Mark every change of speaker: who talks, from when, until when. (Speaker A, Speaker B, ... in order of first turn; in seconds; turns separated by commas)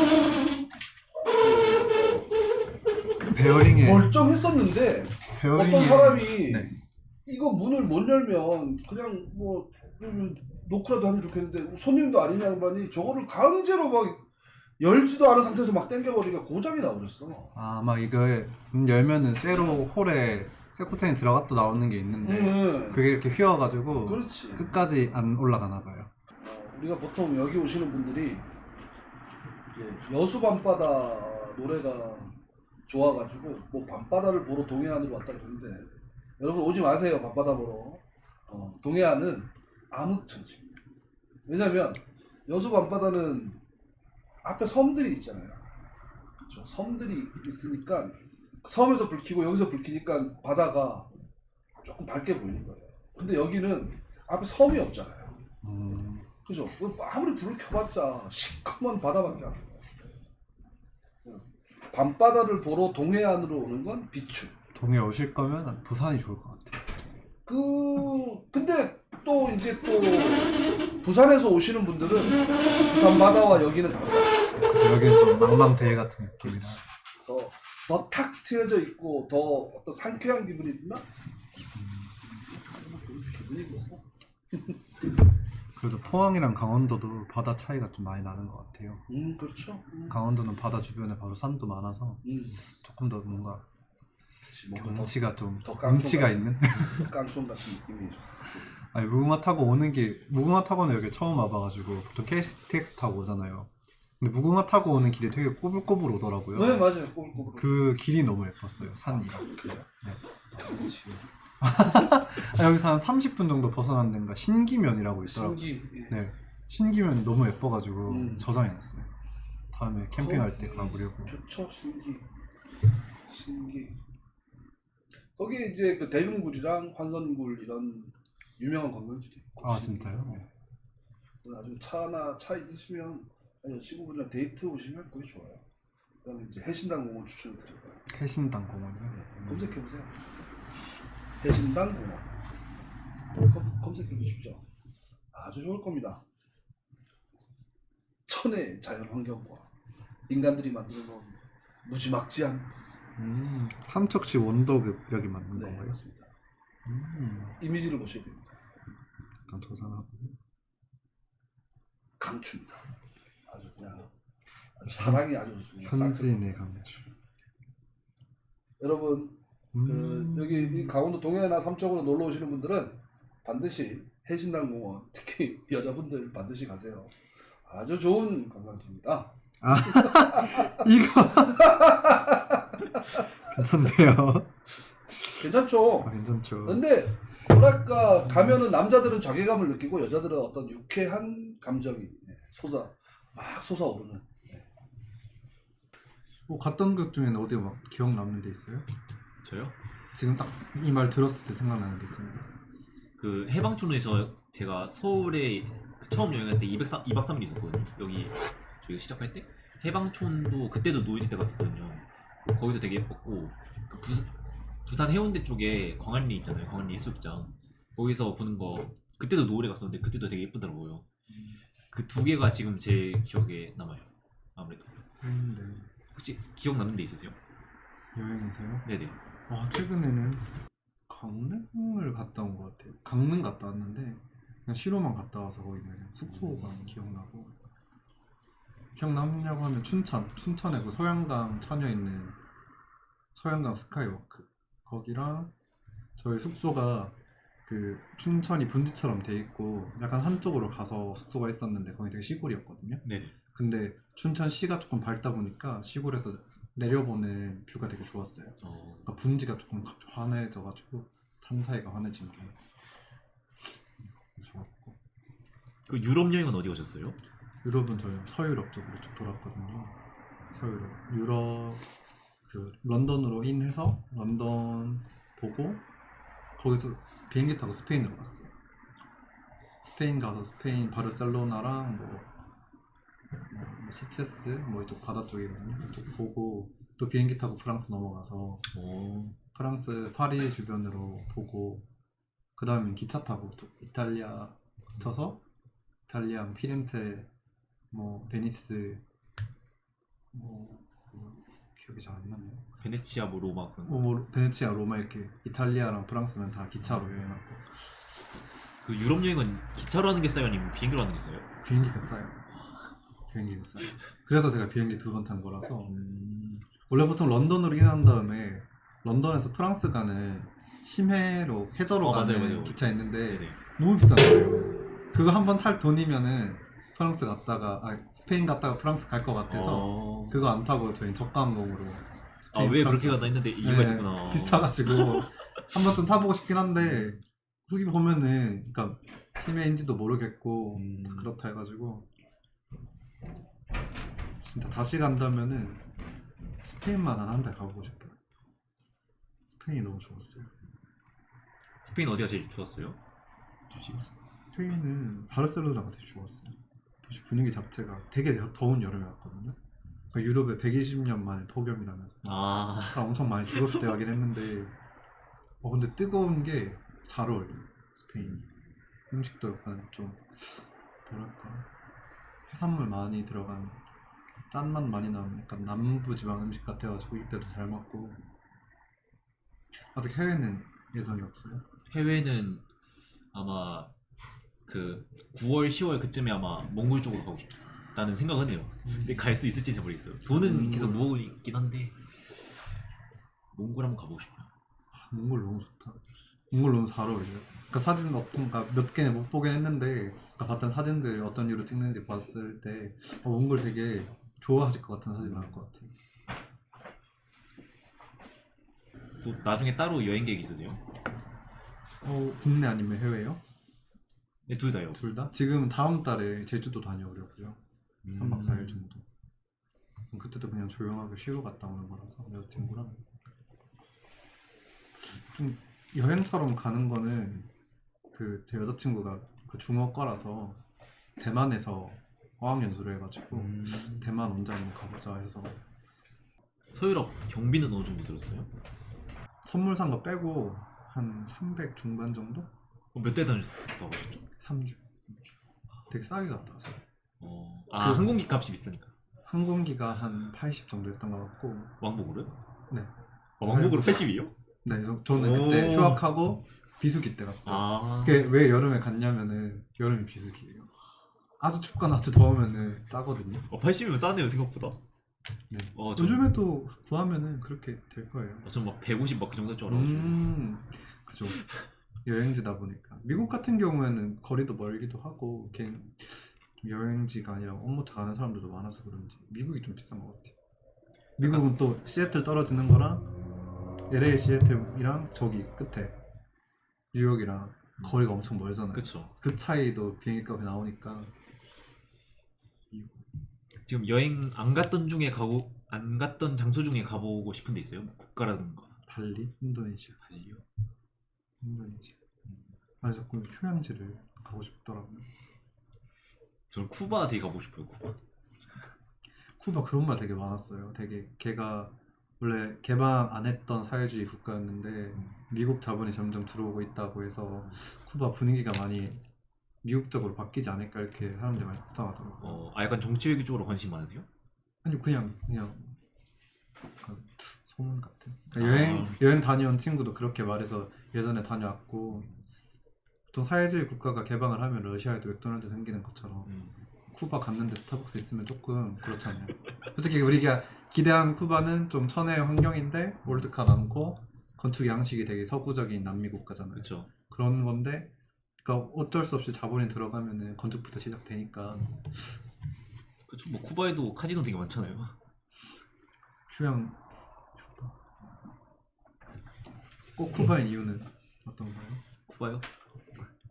Speaker A: 1.4-2.3, Speaker B: 3.3-4.1, Speaker A: 3.8-6.6, Speaker B: 5.3-6.7, Speaker A: 7.3-14.2, Speaker A: 14.8-17.5, Speaker B: 17.5-26.1, Speaker A: 22.2-23.0, Speaker A: 24.1-24.6, Speaker A: 26.4-28.5, Speaker A: 29.7-32.4, Speaker A: 32.9-40.8, Speaker A: 41.5-43.6, Speaker A: 44.4-45.6, Speaker A: 46.5-51.1, Speaker A: 51.8-55.4, Speaker B: 55.6-56.3, Speaker A: 56.4-59.6, Speaker A: 61.2-64.5, Speaker B: 64.7-66.8, Speaker A: 67.5-74.4, Speaker B: 74.5-76.8, Speaker A: 77.2-81.0, Speaker B: 81.7-82.1, Speaker A: 82.5-84.8, Speaker B: 85.8-89.0, Speaker A: 89.1-90.2, Speaker B: 90.1-93.6, Speaker A: 92.2-92.6, Speaker A: 94.5-98.8, Speaker B: 94.8-97.1, Speaker B: 98.8-106.9, Speaker A: 106.5-107.8, Speaker B: 107.5-110.2, Speaker A: 109.1-109.9, Speaker A: 110.5-111.2, Speaker B: 111.6-119.1, Speaker A: 115.3-116.2, Speaker A: 118.1-118.5, Speaker B: 119.7-121.4, Speaker A: 120.1-122.3, Speaker A: 123.3-124.0, Speaker A: 125.3-130.5, Speaker B: 129.6-130.5, Speaker A: 131.4-135.6, Speaker A: 136.2-138.0, Speaker B: 138.1-139.7, Speaker A: 139.1-140.1, Speaker A: 141.4-142.3, Speaker A: 143.4-144.6, Speaker A: 145.3-146.2, Speaker A: 148.3-149.7, Speaker A: 150.3-152.7, Speaker B: 153.2-156.0, Speaker A: 155.5-156.3, Speaker B: 156.9-157.6, Speaker A: 157.6-158.6, Speaker B: 159.5-160.3, Speaker A: 162.2-162.8, Speaker A: 163.5-164.1, Speaker A: 164.8-166.3, Speaker B: 164.9-165.3, Speaker B: 165.8-167.1, Speaker A: 168.8-177.2, Speaker B: 169.7-170.9, Speaker A: 177.7-180.9, Speaker B: 179.6-181.8, Speaker A: 181.6-182.6, Speaker B: 182.9-185.4, Speaker A: 185.4-186.1, Speaker B: 186.0-186.9, Speaker A: 186.7-194.7, Speaker B: 188.3-188.6, Speaker B: 196.5-198.9, Speaker C: 199.4-199.8, Speaker B: 200.1-202.5, Speaker C: 203.2-214.3, Speaker C: 214.9-221.1, Speaker C: 221.9-224.9, Speaker B: 225.2-225.9, Speaker C: 226.1-227.4, Speaker B: 228.2-228.9, Speaker C: 228.9-229.2, Speaker B: 229.5-230.4, Speaker B: 231.1-237.5, Speaker B: 238.9-242.4, Speaker B: 243.3-245.5, Speaker B: 246.2-247.2, Speaker B: 247.7-262.6, Speaker C: 253.1-253.3, Speaker C: 258.6-259.1, Speaker B: 264.3-265.0, Speaker C: 265.9-267.2, Speaker B: 267.6-270.0, Speaker B: 270.5-271.8, Speaker B: 272.5-275.8, Speaker B: 276.6-278.5, Speaker B: 279.8-282.3, Speaker B: 283.5-288.6, Speaker C: 288.7-289.4, Speaker B: 289.5-291.9, Speaker B: 292.6-295.4, Speaker B: 296.1-297.3, Speaker B: 297.9-299.0, Speaker B: 300.3-302.6, Speaker C: 302.8-304.0, Speaker B: 303.9-307.8, Speaker C: 308.8-311.5, Speaker B: 311.6-312.4, Speaker B: 313.3-315.9, Speaker C: 315.9-316.7, Speaker B: 316.9-342.1, Speaker C: 322.0-323.6, Speaker C: 329.5-330.4, Speaker C: 332.5-335.3, Speaker C: 336.8-337.1, Speaker C: 340.8-341.3, Speaker B: 344.4-345.8, Speaker B: 346.6-348.2, Speaker B: 349.5-350.5, Speaker C: 351.8-353.0, Speaker B: 353.7-359.6, Speaker B: 360.1-364.8, Speaker C: 362.2-363.9, Speaker B: 365.6-368.5, Speaker C: 368.2-368.4, Speaker B: 369.1-371.7, Speaker B: 372.5-373.8, Speaker B: 374.5-378.2, Speaker B: 379.9-381.6, Speaker C: 381.9-382.6, Speaker C: 383.3-383.9, Speaker C: 384.6-391.9, Speaker B: 388.8-389.3, Speaker B: 390.3-391.1, Speaker C: 393.5-394.5, Speaker B: 394.9-405.9, Speaker C: 405.2-405.6, Speaker C: 409.2-410.8, Speaker B: 412.0-413.4, Speaker C: 414.5-415.0, Speaker B: 414.9-417.6, Speaker C: 418.0-418.8, Speaker B: 418.1-419.1, Speaker B: 420.1-423.0, Speaker B: 425.1-427.5, Speaker B: 428.1-430.6, Speaker B: 431.2-435.6, Speaker C: 433.3-434.1, Speaker C: 436.7-438.5, Speaker B: 439.4-442.5, Speaker C: 442.9-444.2, Speaker B: 444.4-444.9, Speaker B: 445.9-446.8, Speaker C: 447.2-448.9, Speaker B: 447.8-448.1, Speaker B: 449.3-451.7, Speaker C: 451.8-452.3, Speaker C: 453.4-454.3, Speaker B: 453.4-454.1, Speaker B: 454.6-460.7, Speaker C: 455.1-456.1, Speaker C: 457.5-458.3, Speaker B: 461.4-463.5, Speaker C: 463.5-464.8, Speaker B: 465.5-468.5, Speaker C: 465.7-466.3, Speaker C: 468.4-470.4, Speaker B: 469.7-471.4, Speaker B: 472.1-480.3, Speaker C: 481.2-481.5, Speaker B: 481.2-483.1, Speaker B: 483.9-486.0, Speaker B: 486.9-491.1, Speaker C: 488.7-489.1, Speaker C: 493.6-498.8, Speaker B: 498.9-500.0, Speaker C: 500.0-500.4, Speaker B: 501.4-501.9, Speaker B: 502.8-505.1, Speaker C: 506.5-507.9, Speaker B: 509.4-519.0, Speaker B: 519.6-522.5, Speaker C: 522.2-524.1, Speaker B: 524.6-525.8, Speaker B: 526.8-532.1, Speaker C: 528.4-529.0, Speaker B: 533.1-536.3, Speaker C: 536.3-536.6, Speaker B: 536.9-547.9, Speaker C: 546.5-546.9, Speaker B: 548.4-552.1, Speaker C: 553.1-554.9, Speaker B: 556.3-556.8, Speaker B: 557.4-557.7, Speaker B: 560.0-561.8, Speaker C: 562.1-562.5